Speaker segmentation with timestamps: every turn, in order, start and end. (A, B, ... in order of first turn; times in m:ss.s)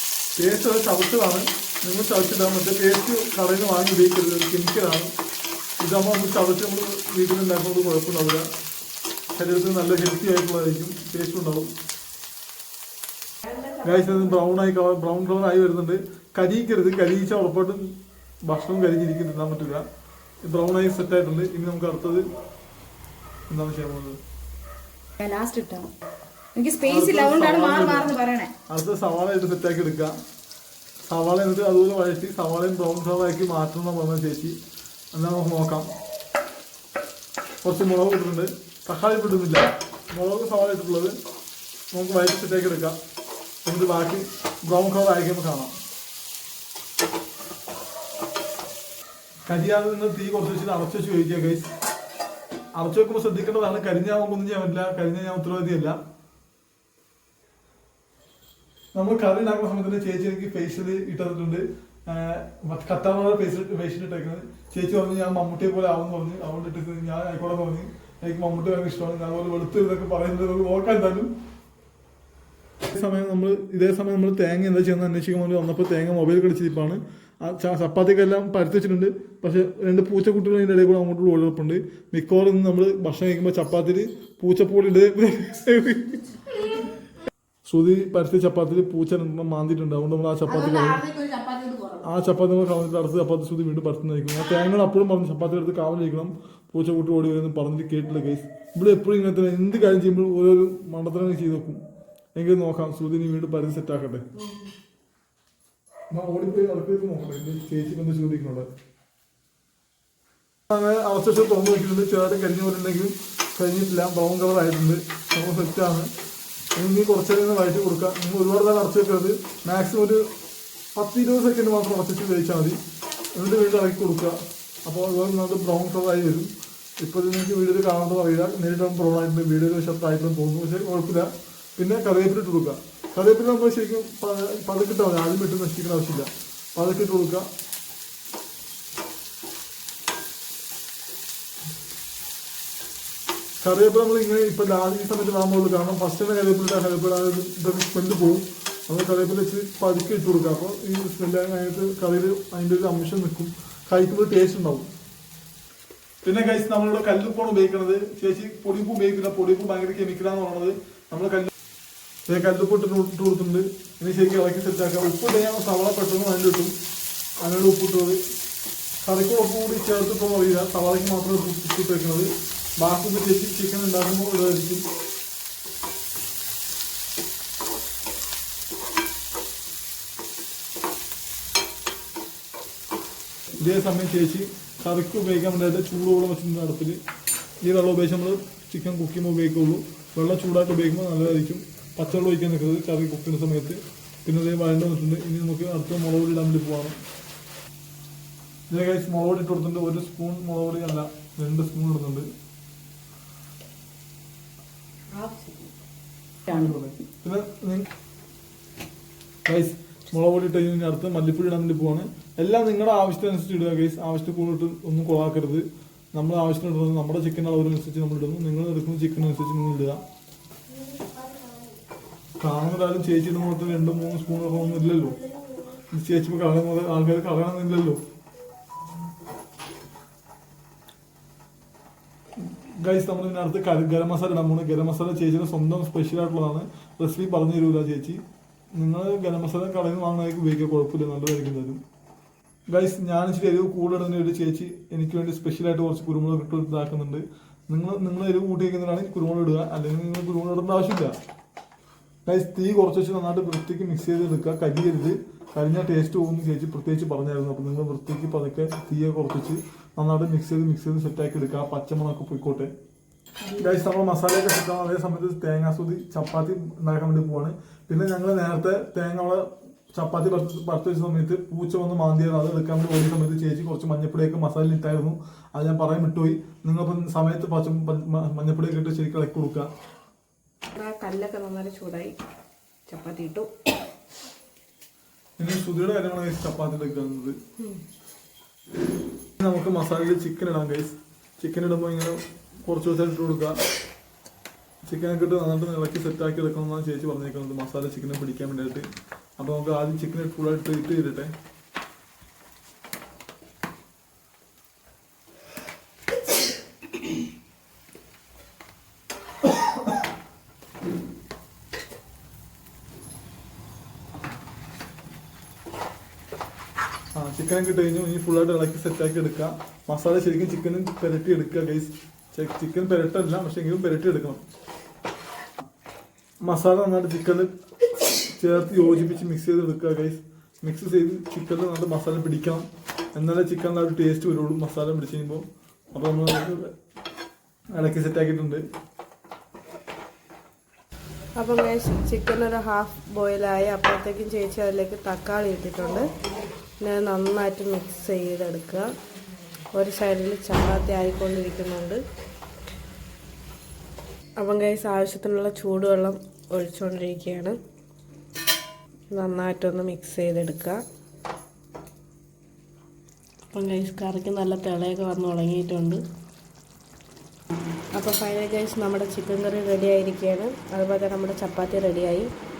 0:00.4-0:05.1 A
0:05.8-0:08.5 A
0:09.3-0:11.7 A
0:13.5-0:13.8 B
0:13.8-0:17.9 A
0:18.4-0:19.8 A
0:20.4-0:22.3 A
0:23.5-0:24.2 A
0:25.2-0:25.9 C
0:26.5-0:28.5 C
0:26.8-0:28.2 A
0:28.7-0:30.1 A
0:31.0-0:34.6 A
0:35.1-0:35.9 A
0:37.6-0:41.2 A
0:41.9-0:43.0 A
0:43.6-0:45.7 A
0:49.4-0:51.7 A
0:52.7-0:56.0 A
0:58.9-1:11.3 A
1:12.9-1:26.4 A
1:27.6-1:31.0 A
1:30.6-1:31.8 C
1:31.1-1:31.8 B
1:32.0-1:41.8 A
1:42.4-1:44.2 A
1:44.4-1:44.7 B
1:46.1-1:48.7 A
1:50.7-1:56.1 A
1:56.8-2:00.2 A
2:00.9-2:02.8 A
2:03.3-2:06.5 A
2:07.0-2:17.4 A
2:23.6-2:34.9 A
2:36.2-2:41.5 A
2:42.3-2:46.7 A
2:47.4-2:48.2 A
2:49.0-2:54.8 A
3:03.6-3:07.0 A
3:07.6-3:17.0 A
3:18.7-3:22.3 A
3:25.2-3:25.5 C
3:26.5-3:26.9 C
3:27.2-3:27.9 A
3:29.4-3:40.0 A
3:40.8-3:41.7 B
3:42.4-3:45.2 A
3:45.9-3:48.0 A
3:52.4-3:58.2 A
3:58.8-4:01.8 A
4:02.7-4:11.2 A
4:12.2-4:22.7 A
4:23.5-4:39.7 A
4:40.7-4:42.2 B
4:42.9-4:43.5 B
4:45.4-4:47.4 A
4:49.4-4:53.6 A
4:54.8-4:58.9 A
4:59.4-5:01.3 A
5:17.1-5:24.4 A
5:26.4-5:27.5 A
5:28.3-5:36.7 A
5:37.7-5:38.6 A
5:41.4-5:46.1 B
5:46.8-5:48.9 B
5:49.7-5:52.0 B
5:54.4-5:57.6 B
5:59.1-6:00.8 B
6:03.5-6:06.0 B
6:07.9-6:12.3 B